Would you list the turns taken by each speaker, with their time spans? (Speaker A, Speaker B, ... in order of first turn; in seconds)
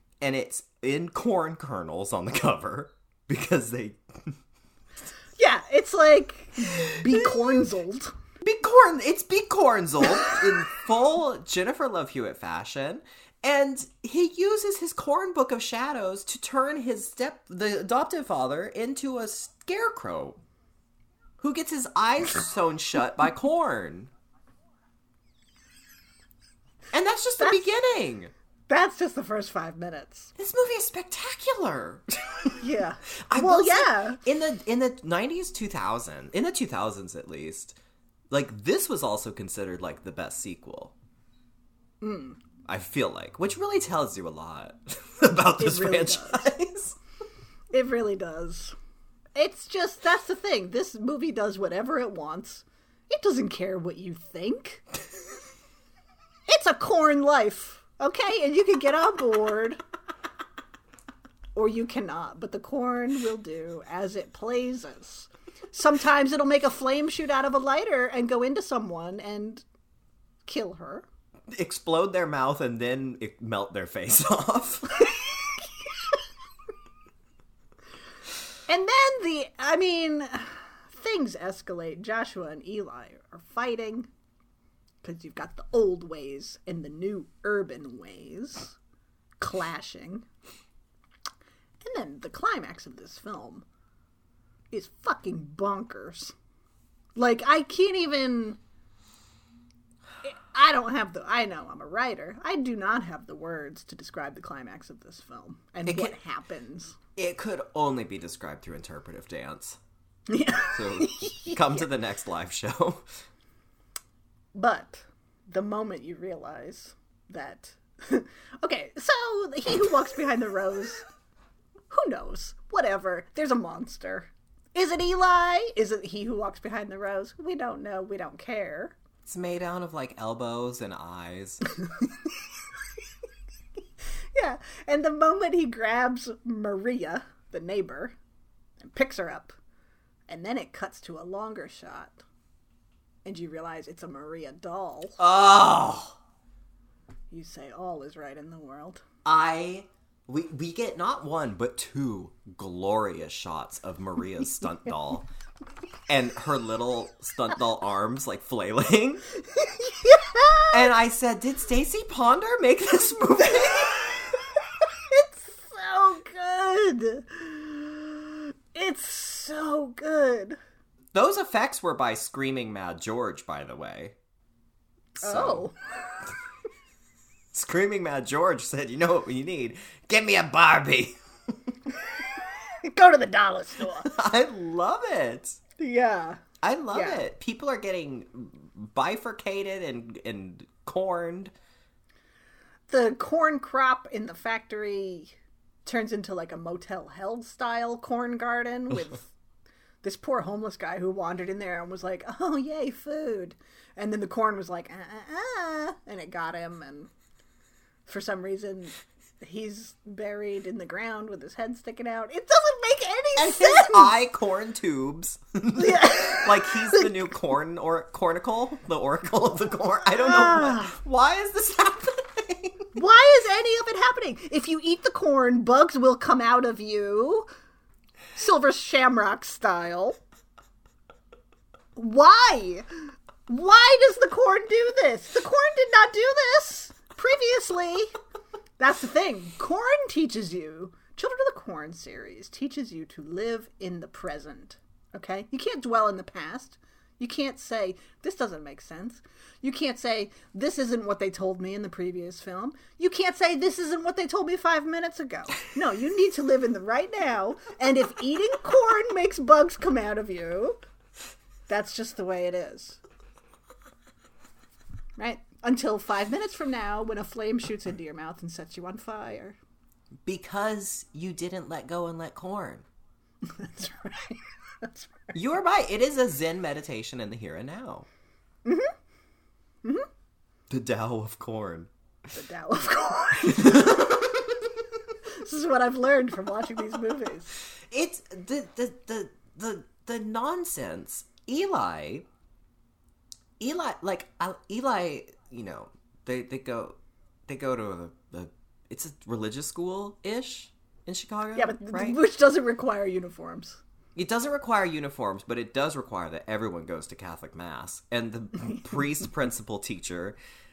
Speaker A: 0.2-4.4, 6.6-7.4, 8.4-20.4, 21.4-24.1, 26.9-28.3, 30.4-32.6, 33.3-37.8, 38.3-40.9, 42.6-47.0, 71.5-75.2, 105.9-106.2, 107.2-109.8, 110.7-113.2, 129.2-131.6, 145.2-146.2, 149.2-155.3, 156.1-159.3, 160.7-164.1, 171.1-174.1, 175.2-175.7, 177.5-181.2, 183.9-185.6, 186.6-191.5, 213.4-222.9, 270.2-272.9, 275.3-278.1, 280.7-281.9, 283.4-284.7, 287.8-292.2, 293.6-296.9, 297.5-302.2, 304.1-310.4
Speaker B: 5.4-8.2, 27.4-27.7, 28.7-30.3, 32.6-34.2, 42.0-42.4, 45.6-46.5, 47.7-48.7, 49.4-54.9, 56.5-59.8, 61.5-69.6, 70.5-71.0, 78.7-84.1, 85.0-88.8, 89.4-90.2, 91.8-93.6, 94.7-96.3, 97.2-98.6, 100.2-107.0, 110.3-111.9, 114.5-121.0, 121.9-128.9, 134.3-138.1, 138.8-139.6, 140.3-142.2, 143.2-145.2, 147.3-149.0, 159.5-160.8, 163.6-170.6, 175.2-176.2, 182.2-184.1, 185.8-186.4, 186.9-187.2, 192.9-195.3, 195.8-199.3, 200.0-207.1, 208.1-214.1, 215.8-217.1, 220.2-220.9, 222.9-227.5, 228.4-230.2, 231.9-238.1, 238.8-260.8, 261.7-263.0, 265.2-269.6, 273.4-275.4, 278.6-278.9, 282.3-284.2, 285.4-287.6, 301.5-303.8